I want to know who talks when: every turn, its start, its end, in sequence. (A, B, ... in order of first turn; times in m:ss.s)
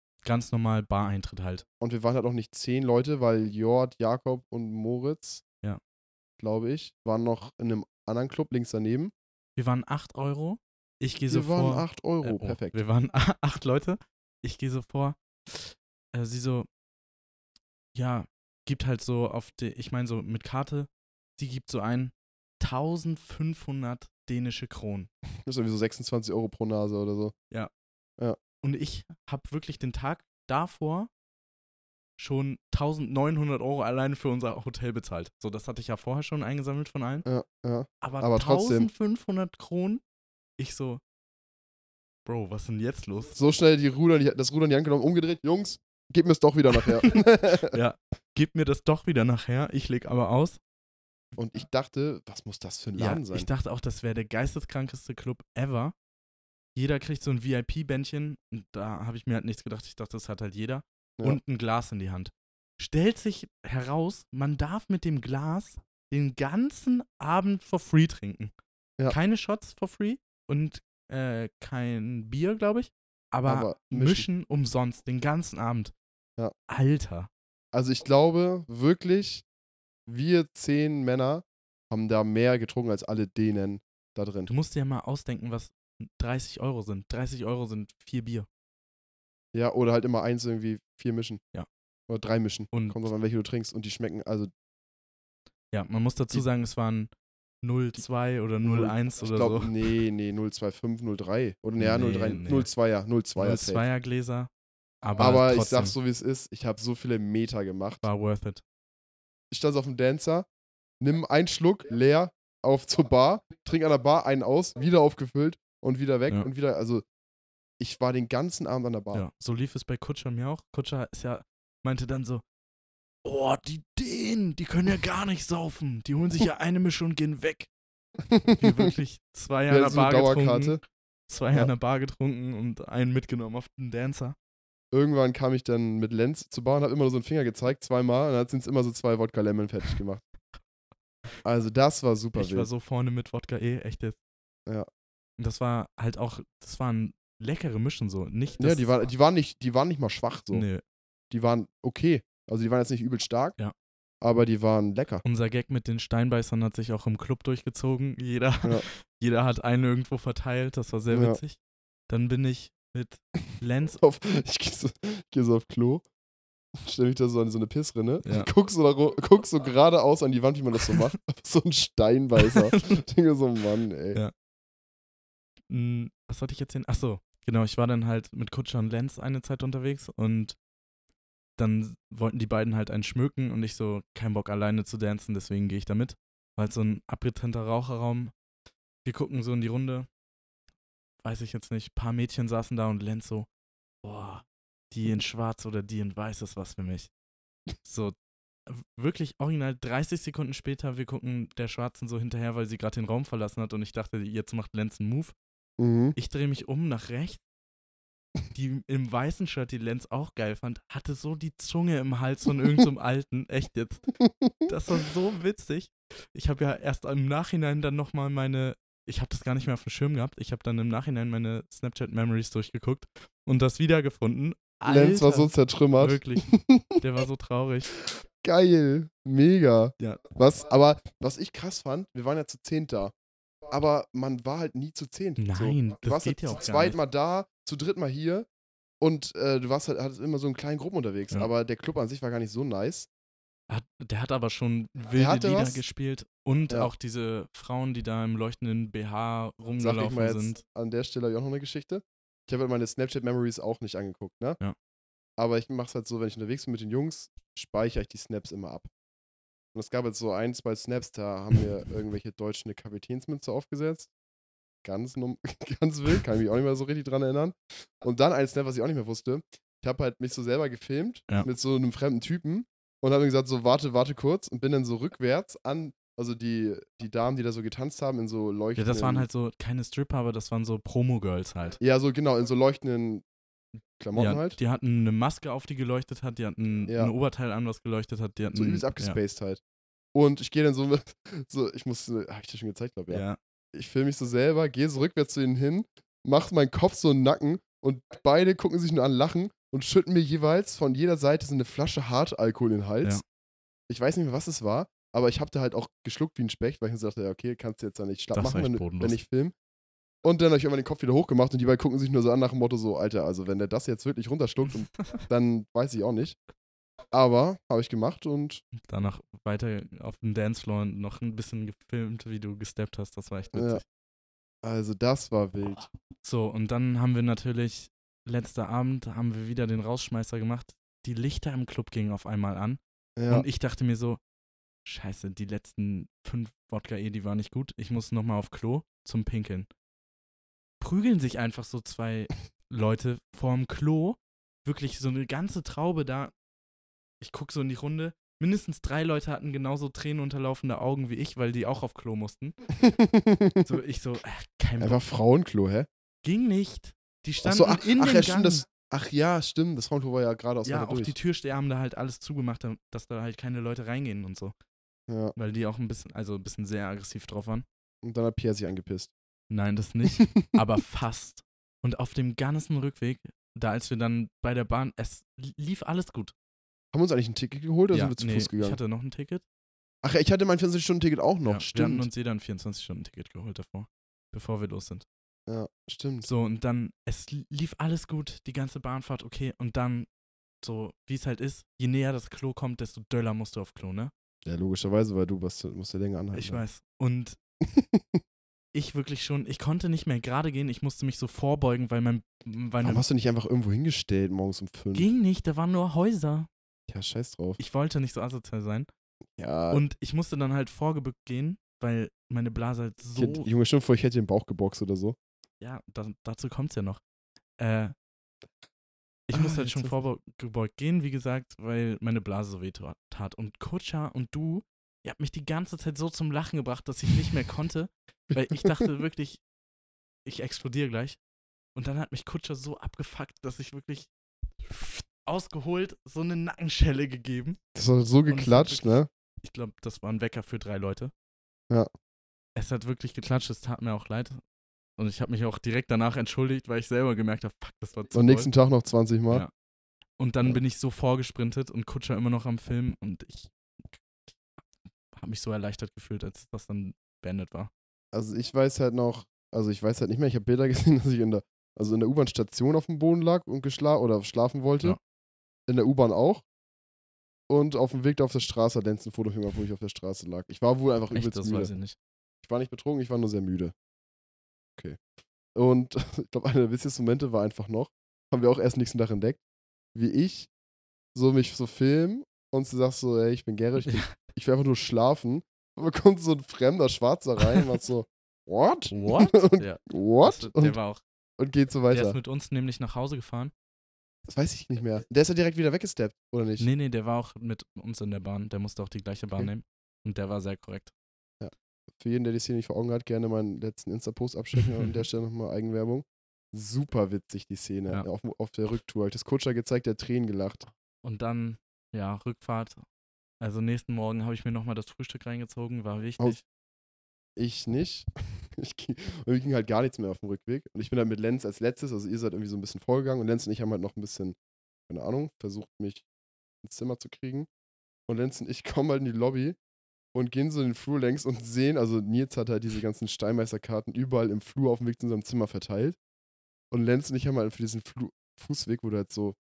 0:00.2-0:01.6 A
0:01.8-0:05.4 B
0:06.4-0:09.1 B
0:09.6-0:16.7 A
0:11.3-0:12.8 B
0:18.0-0:25.1 A
0:25.5-0:27.3 B
0:28.6-0:31.1 A
0:32.2-0:37.3 A
0:37.3-0:38.9 B
0:38.0-0:40.0 A
0:40.6-0:41.0 A
0:42.3-0:43.4 A
0:43.4-0:47.8 B
0:47.0-0:50.6 A
0:51.4-0:53.5 B
0:53.0-0:56.0 A
0:56.8-1:08.5 A
1:09.1-1:15.9 A
1:13.5-1:14.3 B
1:16.7-1:17.3 A
1:17.7-1:19.4 B
1:20.1-1:24.5 B
1:24.5-1:28.5 A
1:29.5-1:31.4 B
1:32.1-1:34.5 B
1:32.7-1:33.0 A
1:35.7-1:39.9 A
1:38.6-1:43.8 B
1:41.8-1:42.7 A
1:43.4-1:44.5 A
1:45.0-1:46.0 A
1:45.2-1:48.0 B
1:48.0-1:48.6 A
1:49.5-1:50.5 B
1:51.0-1:57.0 B
1:57.8-1:59.2 B
1:59.1-2:02.4 A
2:03.2-2:07.7 A
2:08.3-2:08.9 B
2:08.6-2:14.4 A
2:09.7-2:10.8 B
2:14.9-2:20.2 B
2:21.4-2:22.7 B
2:22.4-2:24.2 A
2:25.4-2:29.0 A
2:28.6-2:30.7 B
2:30.5-2:30.8 A
2:31.3-2:33.6 B
2:34.2-2:35.2 B
2:35.2-2:41.6 A
2:41.1-2:41.4 B
2:42.1-2:44.0 A
2:44.0-2:46.0 B
2:46.8-2:54.2 B
2:48.2-2:48.5 A
2:52.4-2:53.0 A
2:55.7-3:00.6 A
3:01.6-3:08.3 A
3:09.0-3:10.1 A
3:11.2-3:13.5 A
3:14.0-3:17.1 A
3:17.8-3:18.2 A
3:18.7-3:25.4 A
3:25.8-3:26.2 B
3:26.2-3:27.4 A
3:28.5-3:34.1 A
3:34.2-3:34.7 B
3:34.7-3:47.9 A
3:44.8-3:47.0 B
3:48.4-3:53.1 B
3:53.7-3:58.5 B
3:55.4-3:57.0 A
3:59.0-4:03.1 B
4:03.7-4:10.6 A
4:05.2-4:05.8 B
4:09.8-4:14.6 B
4:15.4-4:18.9 B
4:19.7-4:24.1 B
4:24.8-4:39.3 B
4:38.8-4:41.8 A
4:41.8-4:43.2 B
4:44.0-4:44.6 B
4:44.1-4:49.2 A
4:46.9-4:47.1 B
4:48.5-4:49.6 B
4:50.1-5:03.2 B
4:53.1-4:53.4 A
5:03.9-5:09.5 B
5:08.3-5:09.2 A
5:10.2-5:16.4 B
5:17.1-5:18.6 B
5:18.8-5:23.8 A
5:23.6-5:23.8 B
5:24.6-5:25.9 B
5:26.2-5:34.2 A
5:33.2-5:33.4 B
5:34.8-5:39.7 A
5:40.8-5:46.3 A
5:47.2-5:52.6 A
5:52.8-5:53.7 B
5:53.6-5:55.0 A
5:54.8-5:55.9 B
5:56.2-5:58.6 A
5:57.4-6:01.2 B
6:00.6-6:04.5 A
6:05.1-6:05.4 B
6:05.4-6:07.7 A
6:08.0-6:09.1 B
6:09.5-6:16.3 A
6:16.9-6:18.8 B
6:17.9-6:19.4 A
6:20.0-6:22.1 B
6:21.4-6:25.1 A
6:25.5-6:26.3 B
6:26.2-6:30.1 A
6:30.6-6:34.1 A
6:34.4-6:36.6 B
6:36.3-6:37.4 A
6:37.6-6:38.2 B
6:38.7-6:43.0 A
6:42.8-6:45.1 B
6:44.9-6:46.5 A
6:46.9-6:47.6 B
6:47.6-6:48.9 A
6:49.4-6:49.8 B
6:49.7-6:53.5 A
6:53.2-6:55.2 B
6:55.6-6:57.0 A
6:57.6-6:57.9 A
6:59.3-7:09.4 A
6:59.3-6:59.9 B
7:08.3-7:08.8 B
7:10.3-7:11.2 A
7:11.8-7:14.1 A
7:14.6-7:17.6 A
7:17.8-7:19.1 B
7:18.3-7:21.1 A
7:22.6-7:24.4 A
7:25.0-7:28.5 A
7:28.1-7:29.4 B
7:30.2-7:34.0 A
7:35.1-7:37.7 A
7:38.1-7:45.0 B
7:45.7-7:46.4 B
7:47.5-7:51.7 B
7:51.1-7:52.0 A
7:52.4-7:53.7 B
7:55.6-7:59.4 B
8:00.0-8:00.5 B
8:01.2-8:10.8 B
8:03.8-8:04.2 A
8:08.9-8:11.0 A
8:11.4-8:12.2 B
8:11.9-8:13.5 A
8:14.3-8:16.7 B
8:16.6-8:20.9 A
8:21.4-8:30.6 B
8:31.0-8:32.8 A
8:33.4-8:36.4 A
8:37.4-8:44.4 B
8:44.9-8:46.1 B
8:46.6-8:47.5 B
8:48.1-8:49.6 B
8:50.1-8:56.0 B
8:56.7-8:59.4 B